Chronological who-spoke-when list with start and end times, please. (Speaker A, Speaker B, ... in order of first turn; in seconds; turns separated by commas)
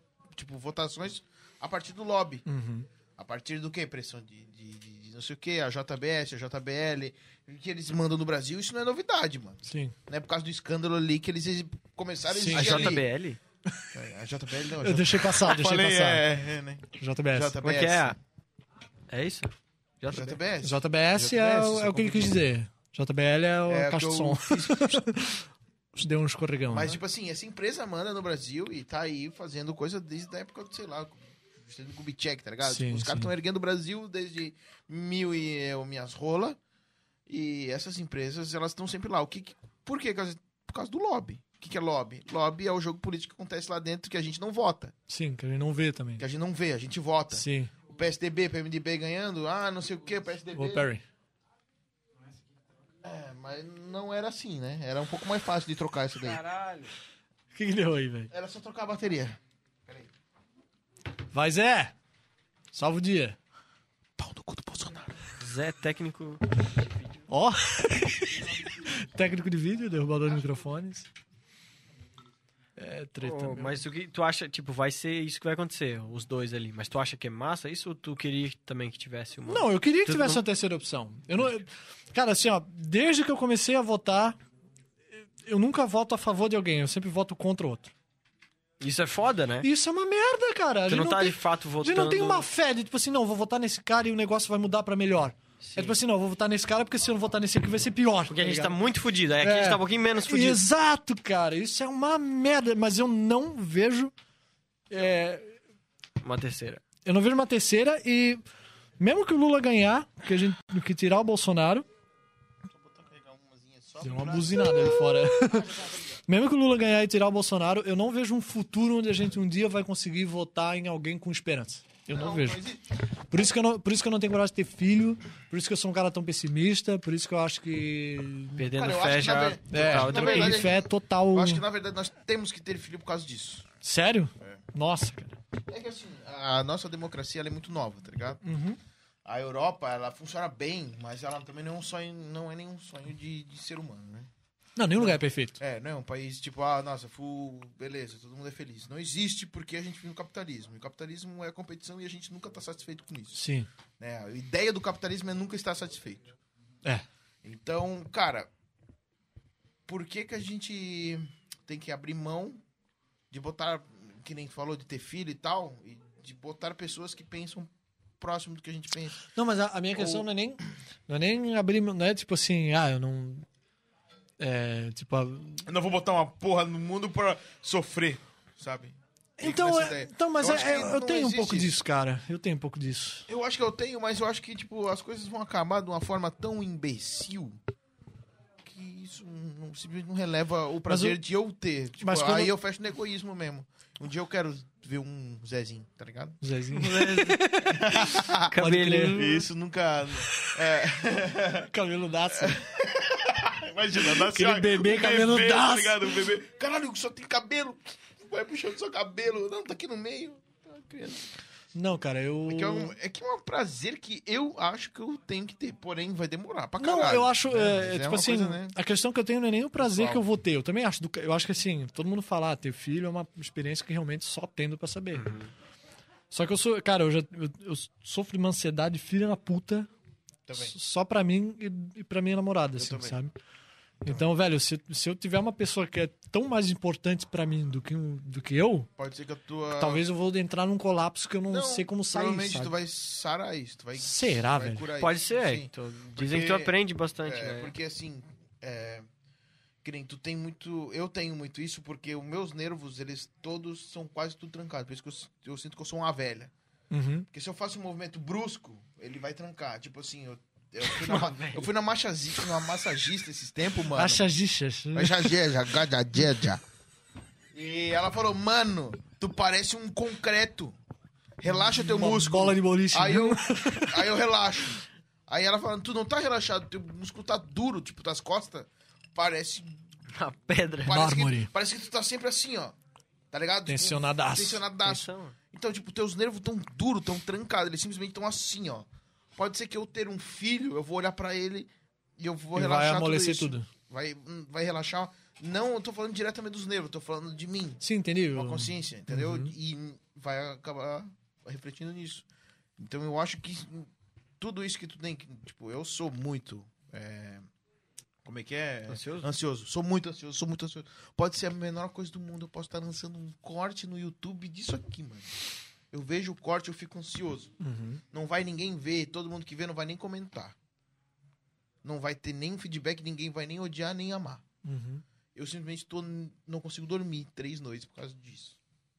Speaker A: 0.3-2.5, Speaker B: 2.5-2.9, Speaker A: 3.2-13.0, Speaker B: 9.7-9.9, Speaker B: 12.3-13.0, Speaker C: 12.5-13.4, Speaker A: 13.9-18.2, Speaker B: 14.8-16.2, Speaker B: 16.9-17.6, Speaker C: 17.6-18.2, Speaker C: 19.1-20.4, Speaker A: 20.1-22.4, Speaker B: 20.6-27.0, Speaker A: 23.7-25.0, Speaker A: 26.7-36.6, Speaker B: 32.6-33.3, Speaker A: 37.3-44.9, Speaker B: 45.1-46.2, Speaker A: 46.2-50.9, Speaker B: 47.3-47.7, Speaker B: 50.5-51.0, Speaker A: 53.0-56.4, Speaker C: 56.3-56.9, Speaker B: 57.5-58.3, Speaker A: 58.3-60.1, Speaker B: 61.3-61.9, Speaker B: 62.7-63.4, Speaker A: 64.2-65.2, Speaker C: 65.4-67.2, Speaker B: 67.3-71.1, Speaker B: 72.8-73.8, Speaker C: 73.2-80.4, Speaker B: 79.5-84.4, Speaker B: 85.5-87.9, Speaker C: 88.8-89.7, Speaker B: 89.6-98.8, Speaker C: 90.9-92.5, Speaker C: 95.6-96.0, Speaker C: 98.3-100.6, Speaker B: 99.4-104.1, Speaker B: 104.9-105.6, Speaker C: 106.2-106.8, Speaker B: 107.0-108.4, Speaker B: 109.0-111.9, Speaker A: 112.7-115.2, Speaker B: 114.0-122.6, Speaker A: 122.1-122.9, Speaker B: 123.3-128.7, Speaker C: 128.6-130.7, Speaker A: 128.7-133.7, Speaker B: 129.7-131.6, Speaker B: 133.8-135.4, Speaker A: 135.7-138.4, Speaker B: 138.4-138.8, Speaker A: 139.2-144.3, Speaker B: 144.8-145.6, Speaker A: 145.0-153.4, Speaker B: 153.3-153.7, Speaker A: 154.0-156.4, Speaker A: 157.4-158.5, Speaker A: 159.9-162.6, Speaker A: 163.3-169.3, Speaker B: 169.3-173.5, Speaker A: 170.0-170.3, Speaker B: 174.4-175.7, Speaker A: 175.7-181.8, Speaker B: 179.4-183.3, Speaker A: 183.3-187.6, Speaker A: 188.6-196.4, Speaker B: 190.9-191.2, Speaker B: 192.0-192.5, Speaker B: 196.4-199.2, Speaker C: 196.7-197.4, Speaker A: 197.7-198.5, Speaker C: 198.5-199.4, Speaker A: 199.1-201.7, Speaker B: 200.3-200.6, Speaker B: 201.7-202.6, Speaker A: 202.3-211.3, Speaker B: 204.0-206.1, Speaker B: 211.8-212.9, Speaker A: 212.5-218.8, Speaker B: 216.8-225.3, Speaker A: 219.8-220.2, Speaker C: 225.2-225.5, Speaker B: 226.3-229.9, Speaker A: 230.5-230.8, Speaker B: 230.5-233.3, Speaker A: 232.8-233.2, Speaker B: 234.0-238.9, Speaker A: 239.0-240.1, Speaker B: 239.8-242.7, Speaker A: 241.5-249.1, Speaker B: 244.0-244.9, Speaker C: 245.0-247.7, Speaker A: 249.8-256.5, Speaker B: 256.9-257.3, Speaker A: 257.3-264.2, Speaker C: 260.9-261.7, Speaker B: 263.9-265.4, Speaker A: 264.9-266.6, Speaker A: 267.5-270.8, Speaker A: 271.4-279.8, Speaker B: 271.5-274.1, Speaker C: 280.1-281.0, Speaker A: 280.8-282.8, Speaker B: 280.9-281.5, Speaker A: 283.3-297.8, Speaker B: 283.7-285.0, Speaker C: 284.9-285.4, Speaker B: 292.5-293.7, Speaker B: 297.8-299.5, Speaker A: 298.3-302.3, Speaker A: 302.8-303.9, Speaker A: 304.4-307.5, Speaker A: 308.2-315.3, Speaker C: 308.9-309.3, Speaker A: 315.9-317.5, Speaker B: 317.6-318.0, Speaker A: 318.1-320.6, Speaker A: 321.8-324.4, Speaker B: 324.6-325.0, Speaker A: 325.4-328.6